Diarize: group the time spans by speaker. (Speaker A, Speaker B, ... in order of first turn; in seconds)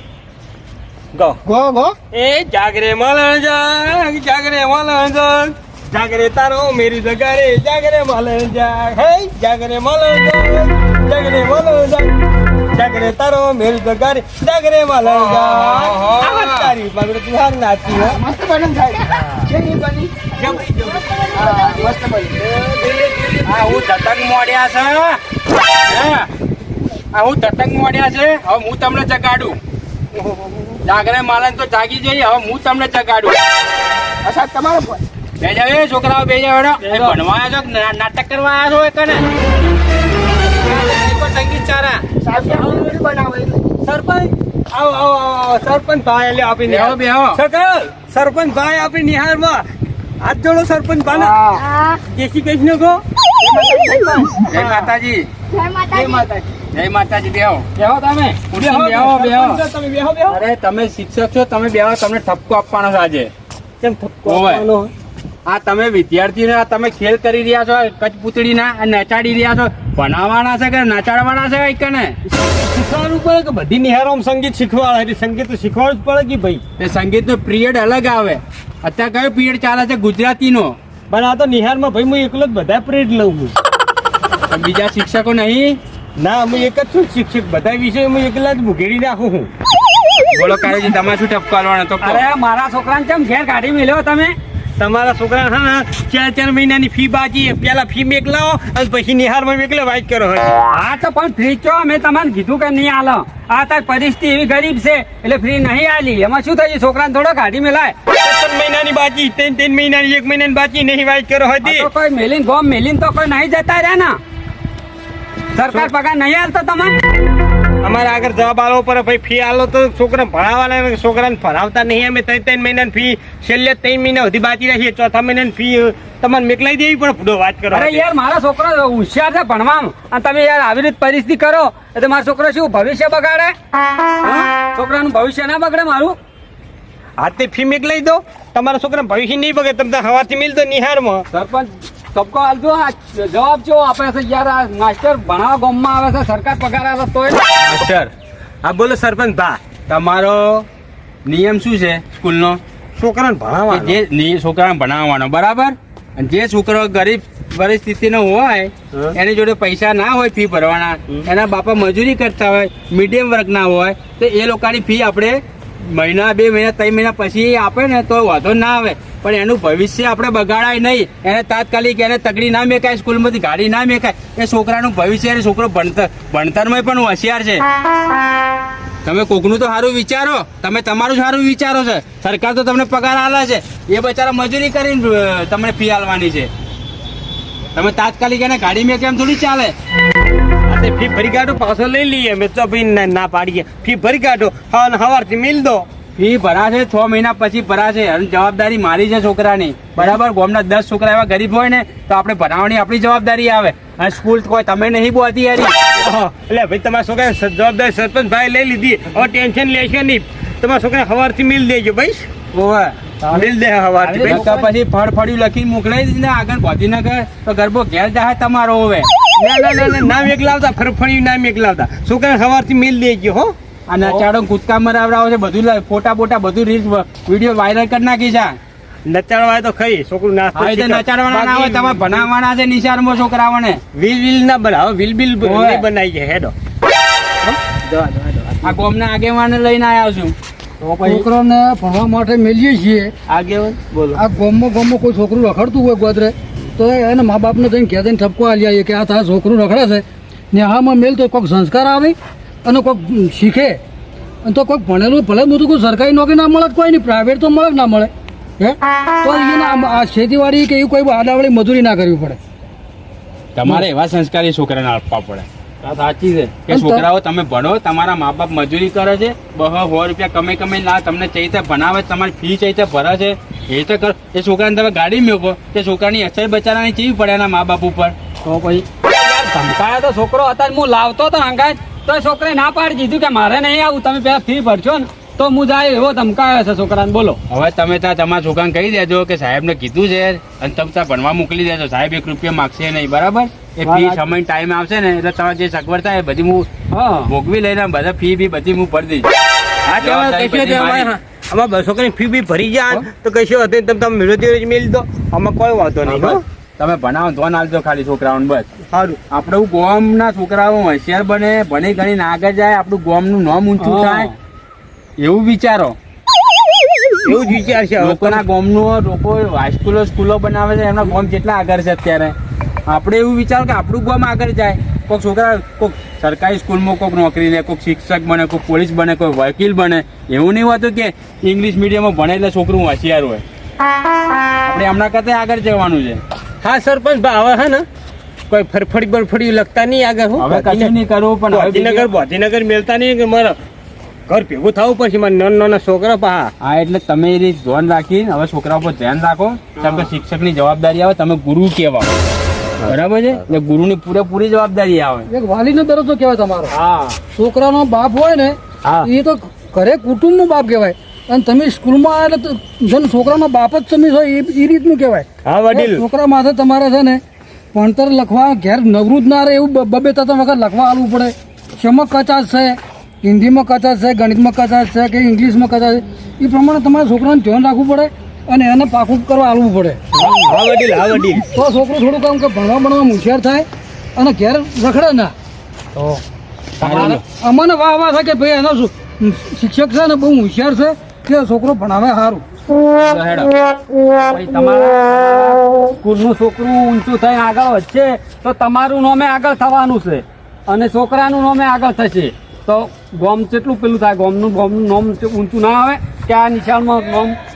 Speaker A: 1.4-1.9, 17.9-20.7, 21.3-22.4, 34.2-35.0, 42.2-43.6, 53.4-54.4
Speaker B: 2.1-12.1, 12.7-18.2, 19.1-19.5, 20.4-21.1, 22.4-23.6, 30.2-30.8, 36.8-37.1, 42.4-42.9, 43.8-49.6, 50.2-51.4, 52.1-53.0, 54.5-54.9, 55.9-56.5, 58.5-60.4, 63.8-64.9, 72.2-76.6, 81.1-83.5, 86.2-89.5, 94.8-100.6, 108.2-111.9, 117.8-128.0, 137.2-141.2, 148.6-149.6, 153.0-154.0, 190.7-195.9, 206.0-212.3, 213.3-214.5, 219.4-224.2, 229.1-232.3, 233.9-236.5, 237.4-238.8, 240.9-241.2, 243.3-244.2, 299.9-306.4, 308.9-309.2, 317.2-318.4, 336.6-337.8, 338.5-340.9, 341.5-343.6, 344.3-346.5, 349.8-350.1, 365.4-366.1, 380.2-381.4
Speaker C: 15.0-16.7, 23.4-25.2, 25.9-26.3, 27.1-29.6, 30.8-33.4, 35.4-39.2, 40.4-42.0, 46.6-47.4, 54.4-55.3, 56.7-57.7, 58.5-59.6, 60.3-63.3, 64.2-64.6, 65.5-72.2, 76.8-80.8, 84.5-85.8, 90.3-92.3, 147.6-148.1, 149.9-150.7, 151.2-152.6, 153.7-177.6, 179.0-186.5, 187.7-189.7, 196.2-205.7, 212.5-212.9, 214.1-219.1, 223.9-228.6, 230.5-233.8, 235.4-235.8, 238.6-240.3, 263.5-265.4, 266.7-278.1, 287.5-296.7, 297.2-299.3, 300.0-301.1, 306.0-308.7, 309.3-314.3, 315.2-315.9, 318.0-322.3, 322.9-333.4, 334.6-336.2, 340.4-342.1, 346.6-352.1, 352.9-355.3, 356.7-357.2, 386.8-387.2, 392.9-393.5
Speaker D: 21.0-21.9, 51.5-52.0, 55.5-56.2
Speaker E: 51.1-51.6, 57.8-58.4, 92.0-94.3, 100.7-107.9, 111.6-114.2, 115.5-117.0, 127.7-133.5, 134.2-136.2, 141.3-147.4, 214.0-214.7, 265.8-266.6, 278.4-287.4, 293.8-294.2, 296.9-297.3, 313.8-314.3, 380.1-380.5, 385.9-386.2, 386.8-387.2, 394.2-407.4
Speaker F: 241.0-243.1, 244.1-253.8, 254.4-262.4, 266.7-267.0, 355.3-356.7, 357.3-367.2, 367.7-380.0, 381.5-385.3, 387.2-392.4